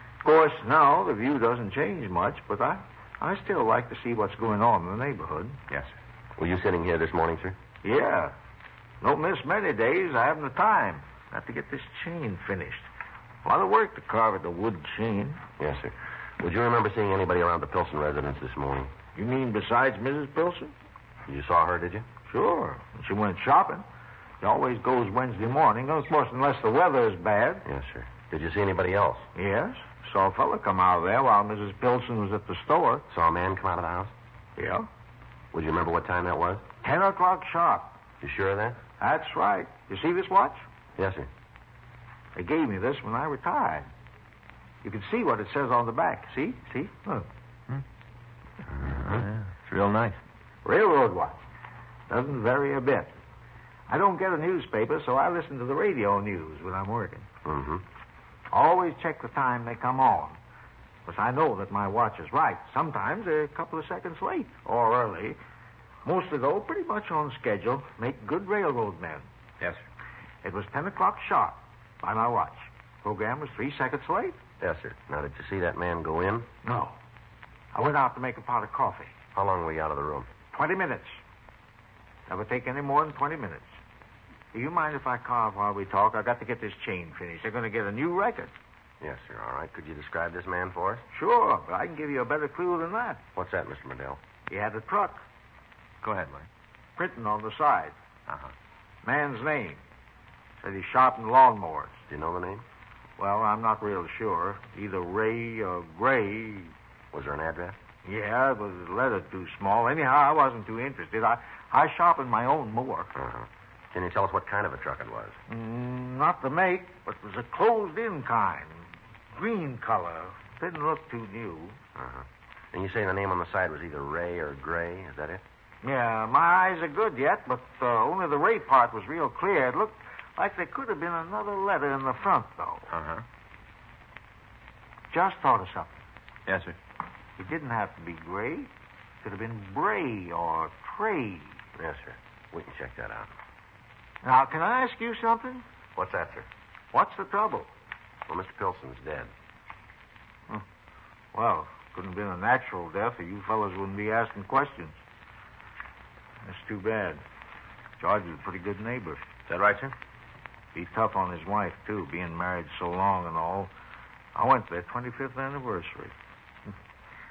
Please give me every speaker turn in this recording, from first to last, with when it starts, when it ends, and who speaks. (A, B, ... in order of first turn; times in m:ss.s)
0:00.2-0:05.6 A
0:06.4-0:07.6 B
0:07.8-0:08.3 A
0:09.0-0:12.9 A
0:13.4-0:15.4 A
0:15.6-0:18.9 B
0:19.2-0:20.7 A
0:21.3-0:22.1 B
0:22.3-0:23.8 A
0:24.4-0:27.6 A
0:27.7-0:29.3 B
0:29.4-0:33.1 A
0:33.1-0:34.1 B
0:34.6-0:34.9 A
0:35.5-0:36.6 B
0:36.8-0:38.0 A
0:38.2-0:38.8 B
0:39.0-0:40.6 A
0:41.0-0:41.3 B
0:42.4-0:43.9 A
0:44.8-0:47.3 A
0:48.8-0:50.2 C
0:50.6-0:51.4 A
0:52.1-0:53.2 A
0:53.9-0:57.3 A
0:57.4-0:57.8 B
0:58.5-1:00.4 A
1:01.1-1:05.4 A
1:06.0-1:09.3 A
1:10.4-1:14.4 A
1:14.6-1:16.5 B
1:16.6-1:17.0 A
1:17.7-1:19.2 A
1:19.4-1:20.3 B
1:20.5-1:21.2 A
1:22.3-1:23.7 A
1:24.5-1:28.5 A
1:29.0-1:31.0 B
1:31.1-1:33.2 A
1:33.4-1:34.2 B
1:34.5-1:35.2 A
1:36.0-1:36.5 C
1:37.0-1:38.0 A
1:39.0-1:39.8 A
1:40.6-1:42.0 A
1:42.1-1:42.6 B
1:43.2-1:46.7 A
1:47.1-1:47.8 B
1:48.0-1:53.1 A
1:53.2-1:55.4 B
1:55.5-2:01.8 A
2:02.0-2:05.4 B
2:05.8-2:12.9 A
2:12.9-2:13.2 C
2:15.1-2:16.0 A
2:16.5-2:16.8 C
2:17.4-2:18.7 A
2:19.2-2:21.6 A
2:21.8-2:23.3 B
2:24.2-2:25.6 A
2:26.0-2:26.5 B
2:26.9-2:27.7 A
2:28.3-2:29.3 B
2:31.3-2:35.0 A
2:36.4-2:37.2 A
2:38.0-2:39.2 A
2:39.5-2:39.9 C
2:40.7-2:43.7 A
2:44.4-2:46.2 A